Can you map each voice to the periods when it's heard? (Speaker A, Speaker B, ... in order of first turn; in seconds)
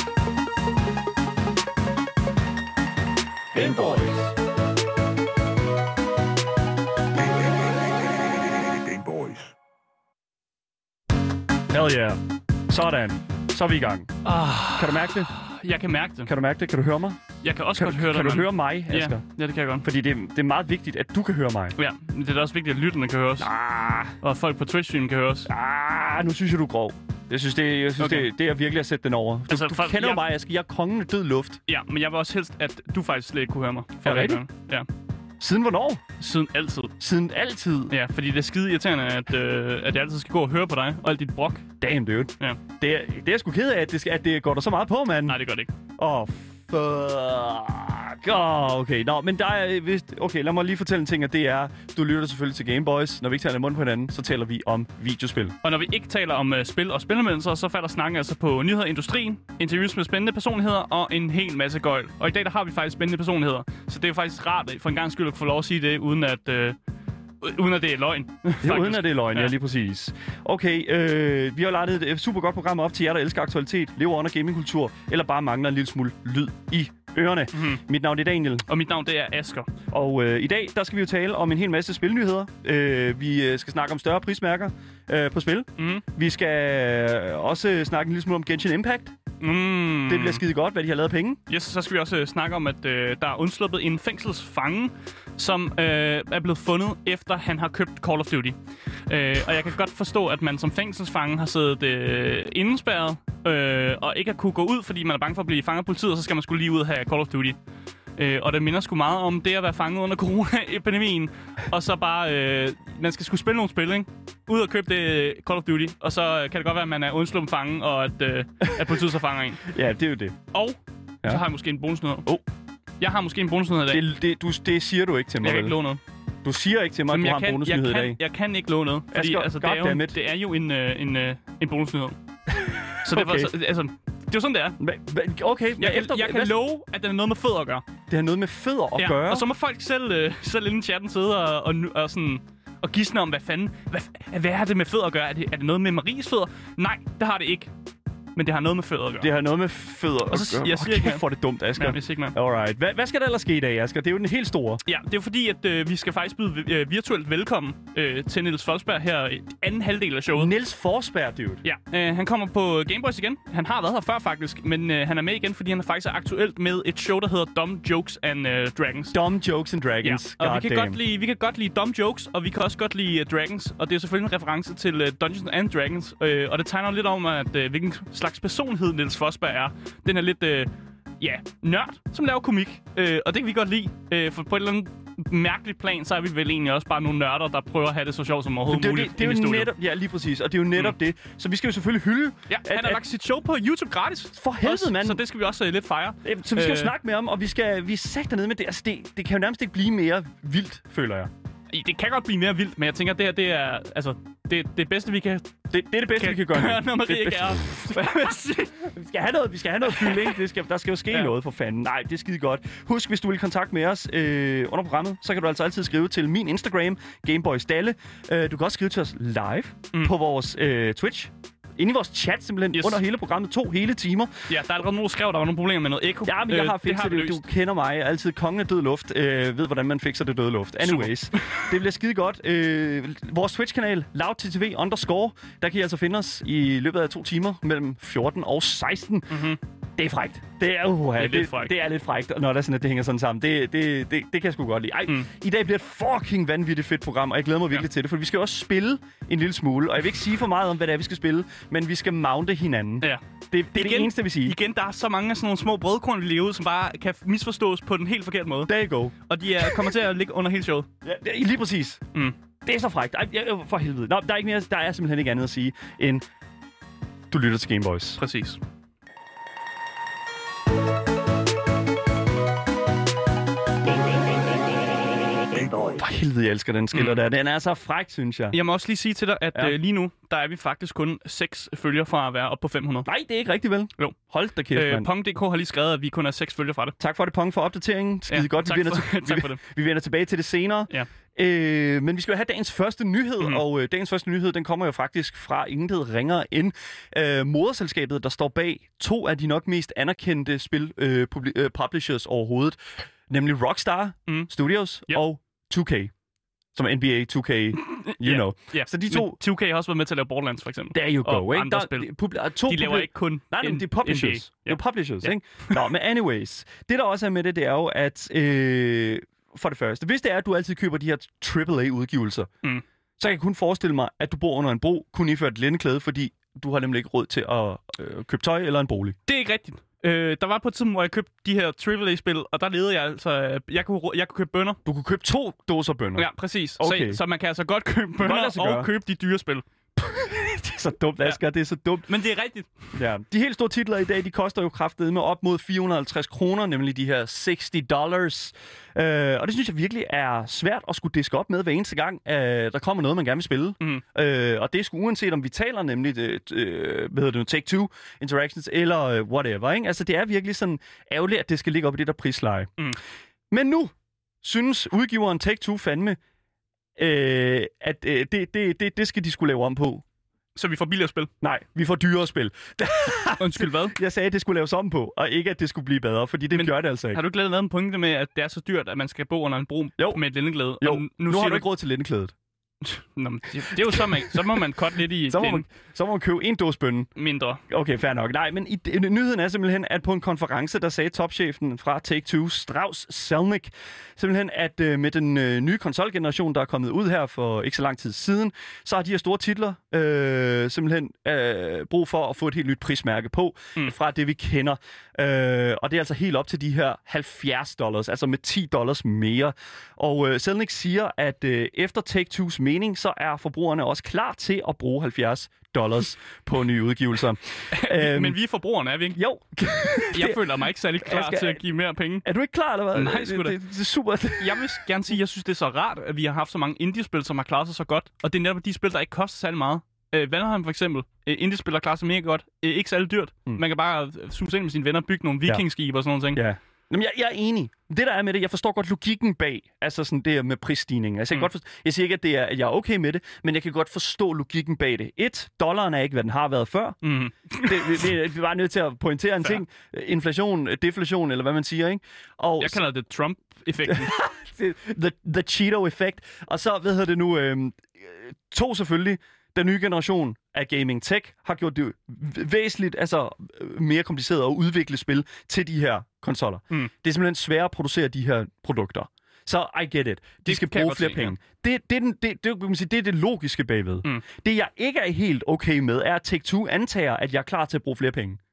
Speaker A: 3.5-4.3, 7.2-9.5, 275.5-276.0
Speaker B: 11.7-14.2, 14.7-15.3, 16.3-17.2, 17.7-19.2, 19.8-21.8, 23.4-24.1, 25.5-31.6, 34.0-34.4, 35.4-36.0, 37.0-37.9, 41.8-45.4, 46.0-55.5, 68.6-78.7, 79.9-89.1, 90.1-91.4, 118.6-119.0, 119.6-120.3, 123.9-125.8, 126.4-128.2, 129.1-130.2, 132.6-133.5, 134.8-136.5, 138.1-139.4, 149.2-154.8, 160.3-161.6, 169.1-171.0, 188.7-193.0, 194.3-195.2, 196.2-201.3, 205.7-224.5, 226.2-254.6, 258.7-259.7, 261.0-262.0, 262.6-266.2, 267.3-268.2, 274.1-274.4, 275.9-278.6, 283.1-285.1, 287.0-306.1, 306.7-309.4, 310.9-322.5, 323.2-329.1, 334.8-336.3, 336.8-337.2, 338.2-338.9, 340.0-342.1, 342.9-362.7, 363.5-366.2, 367.0-370.0, 371.4-377.2, 380.8-382.3, 383.7-384.6, 385.3-387.1, 387.7-418.4, 419.1-420.4, 421.0-421.6, 422.2-424.8, 436.3-447.0, 447.6-452.8, 453.9-478.4
Speaker C: 14.2-16.3, 17.4-19.9, 21.8-23.5, 24.2-25.5, 28.0-28.3, 29.5-30.3, 31.7-34.9, 36.2-36.9, 37.9-41.6, 45.3-45.7, 55.6-66.8, 67.4-69.5, 77.5-77.8, 78.7-79.7, 85.8-86.0, 89.4-90.4, 91.5-98.5, 99.1-107.6, 108.2-119.7, 120.5-122.3, 123.0-124.0, 125.4-126.0, 127.1-132.2, 133.0-134.8, 135.8-137.8, 138.9-147.7, 148.3-149.3, 150.3-151.2, 151.7-152.3, 154.8-160.5, 161.6-169.2, 170.0-180.7, 181.2-189.7, 192.5-196.9, 201.7-205.5, 206.1-208.9, 209.8-210.4, 222.7-223.0, 224.5-227.4, 230.8-231.7, 239.3-239.6, 241.2-241.7, 253.0-258.7, 259.2-260.9, 268.2-268.6, 276.9-277.2, 278.5-283.1, 284.7-286.9, 288.3-289.6, 307.8-312.1, 312.6-315.8, 329.2-334.8, 336.1-339.6, 342.1-342.9, 370.5-371.3, 373.4-374.0, 376.5-381.7, 382.8-385.6, 387.1-387.6, 417.7-419.2, 420.1-422.2, 422.9-423.6, 424.4-436.4, 447.0-448.1, 452.6-454.1, 470.4-471.4